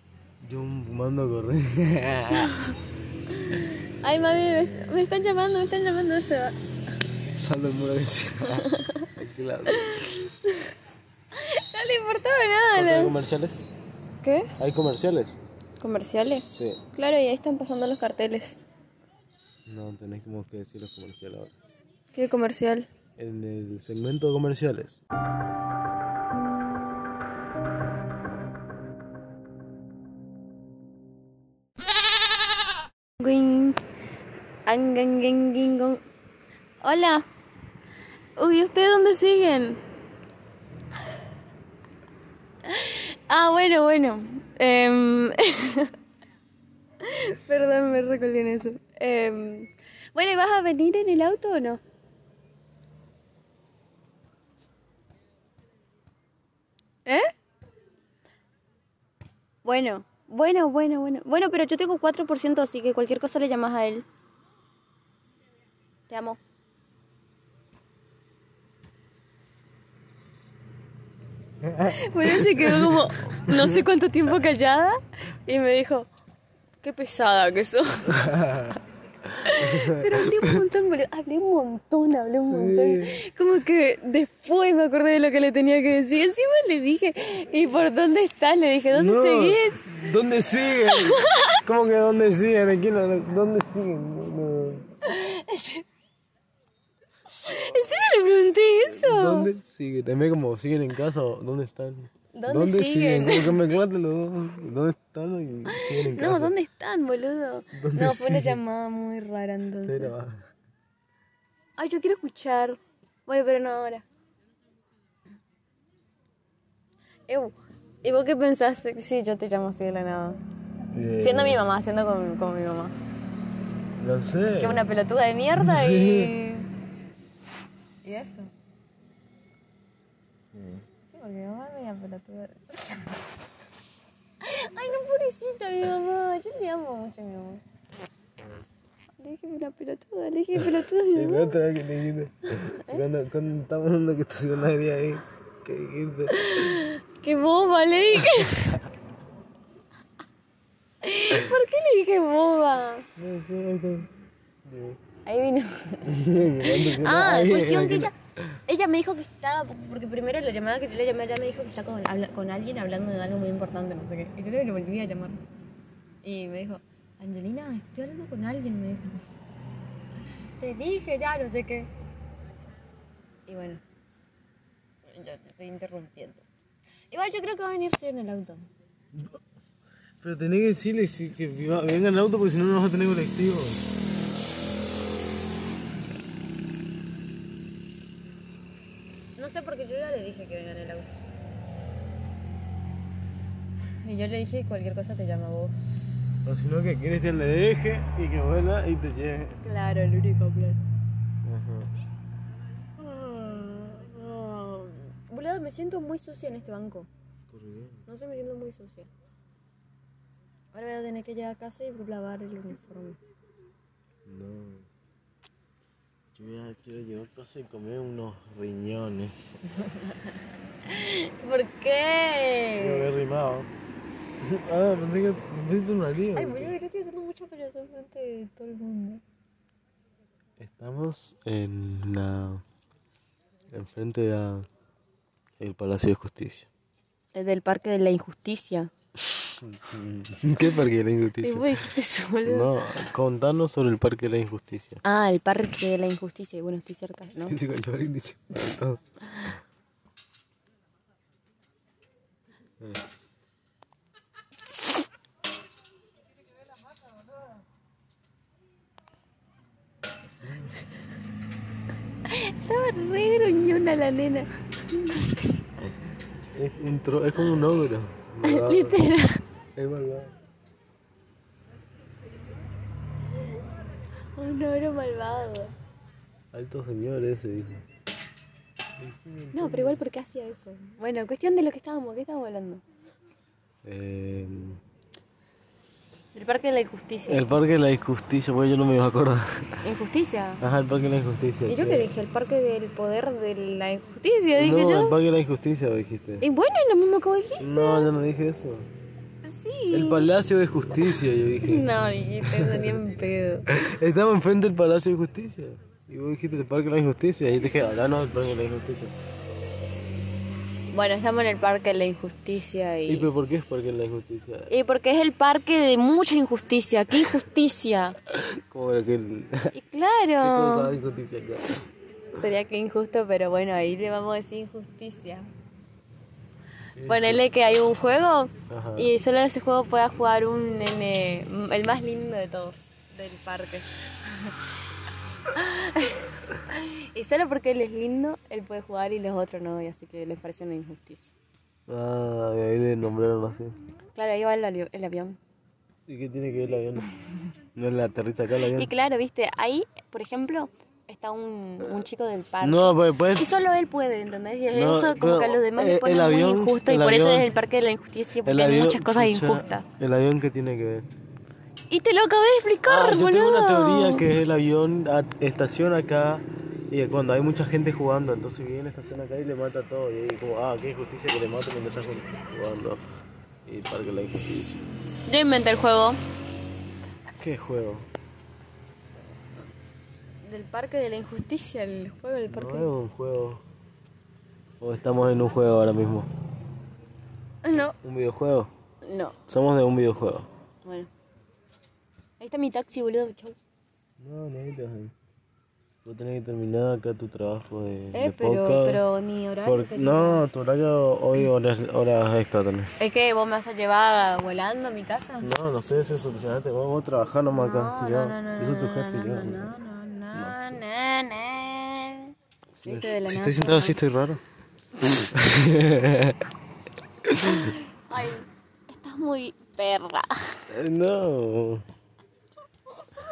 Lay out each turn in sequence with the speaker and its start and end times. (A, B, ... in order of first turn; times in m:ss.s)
0:00.4-0:02.5 A
0:02.5-0:02.7 B
0:03.3-0:06.6 B
0:07.3-0:10.1 A
0:08.5-0:09.1 B
0:09.7-0:10.7 B
0:11.3-0:13.1 B
0:12.7-0:13.7 A
0:14.2-0:14.5 B
0:14.6-0:15.3 A
0:15.8-0:18.6 B
0:16.5-0:16.8 A
0:19.7-0:21.5 A
0:22.1-0:22.9 B
0:23.2-0:25.0 A
0:33.2-0:33.8 B
0:34.6-0:36.0 B
0:36.8-0:37.2 B
0:38.4-0:39.8 B
0:42.6-0:45.9 B
0:47.0-0:51.8 B
0:57.0-0:57.3 B
0:59.6-1:04.0 B
1:06.1-1:06.4 B
1:11.6-1:13.8 A
1:11.8-1:16.1 B
1:16.8-1:18.3 B
1:18.1-1:18.7 A
1:19.3-1:30.1 B
1:19.5-1:20.6 A
1:22.3-1:23.2 A
1:28.9-1:34.9 A
1:30.8-1:31.6 B
1:35.0-1:35.8 B
1:37.3-1:39.5 B
1:38.9-1:46.5 A
1:42.3-1:43.6 B
1:45.7-1:50.1 B
1:47.7-1:48.6 A
1:49.8-1:50.4 A
1:51.8-1:54.0 B
1:57.3-2:00.4 B
2:00.9-2:01.6 A
2:01.2-2:02.9 B
2:04.0-2:04.8 A
2:04.6-2:06.7 B
2:05.6-2:06.3 A
2:08.0-2:08.5 B
2:10.5-2:10.8 A
2:11.1-2:13.1 B
2:14.4-2:17.6 B
2:18.4-2:18.6 A
2:19.2-2:21.5 B
2:21.1-2:26.4 A
2:22.7-2:23.0 B
2:26.3-2:28.8 B
2:31.0-2:33.1 B
2:33.2-2:34.1 A
2:34.6-2:35.0 A
2:35.2-2:38.1 B
2:36.0-2:38.5 A
2:38.6-2:45.4 B
2:46.2-2:49.2 B
2:50.6-2:51.9 B
2:53.5-2:53.8 B
2:55.1-2:56.4 B
2:57.1-2:58.6 B
3:00.2-3:03.8 A
3:09.4-3:11.1 B
3:14.0-3:15.8 B
3:16.4-3:19.6 A
3:19.6-3:20.8 B
3:21.4-3:21.9 A
3:23.0-3:27.1 B
3:27.5-3:28.0 A
3:28.1-3:29.1 B
3:30.7-3:33.2 B
3:34.2-3:34.8 A
3:36.3-3:39.4 A
3:39.7-3:43.0 B
3:42.8-3:43.7 A
3:44.4-3:46.7 A
3:46.3-3:49.2 B
3:50.6-3:52.6 A
3:53.7-3:54.7 A
3:55.6-3:56.7 A
3:57.3-3:58.9 B
3:59.6-4:01.9 A
4:01.4-4:02.8 B
4:02.4-4:05.0 A
4:05.0-4:07.6 B
4:07.3-4:09.0 A
4:20.4-4:20.7 A
4:22.3-4:25.4 B
4:26.5-4:29.1 A
4:28.4-4:29.4 B
4:29.8-4:30.3 A
4:34.4-4:35.7 B
4:36.5-4:37.8 A
4:39.0-4:40.0 A
4:39.5-4:42.8 B
4:43.8-4:44.8 A
4:46.3-4:47.5 B
4:47.3-4:49.8 A
4:49.8-4:50.6 B
4:50.6-4:52.1 A
4:51.7-4:55.2 B
4:54.6-4:56.4 A
4:56.4-4:58.1 B
4:57.6-4:58.9 A
4:59.4-5:00.3 B
4:59.9-5:01.9 A
5:01.6-5:03.6 B
5:02.4-5:02.9 A
5:03.7-5:09.1 A
5:10.9-5:13.3 B
5:13.1-5:14.7 A
5:14.7-5:18.2 B
5:18.3-5:19.7 A
5:19.7-5:20.9 B
5:20.4-5:21.9 A
5:22.3-5:25.5 B
5:27.0-5:27.4 A
5:27.1-5:34.6 B
5:28.7-5:29.1 A
5:35.5-5:41.3 B
5:41.9-5:43.8 A
5:44.1-5:45.4 B
5:46.1-5:47.0 A
5:47.7-5:48.9 A
5:48.7-5:59.8 B
5:52.6-5:53.4 A
5:54.7-5:57.5 A
5:58.4-6:01.0 A
6:01.9-6:04.2 B
6:02.8-6:13.0 A
6:13.6-6:14.9 A
6:15.3-6:16.2 B
6:17.4-6:18.1 A
6:20.4-6:22.9 B
6:22.5-6:23.6 A
6:24.8-6:26.3 A
6:27.6-6:28.0 B
6:27.7-6:28.7 A
6:29.0-6:29.4 B
6:29.5-6:30.5 A
6:30.8-6:31.1 B
6:32.4-6:33.6 B
6:34.2-6:35.1 A
6:36.0-6:39.0 A
6:38.1-6:40.4 B
6:39.6-6:42.9 A
6:43.0-6:45.5 B
6:45.4-6:49.7 A
6:47.5-6:54.0 B
6:50.3-6:50.8 A
6:52.8-6:54.4 A
6:55.2-6:56.4 A
6:57.2-6:57.7 A
6:57.4-7:00.6 B
7:00.7-7:01.8 A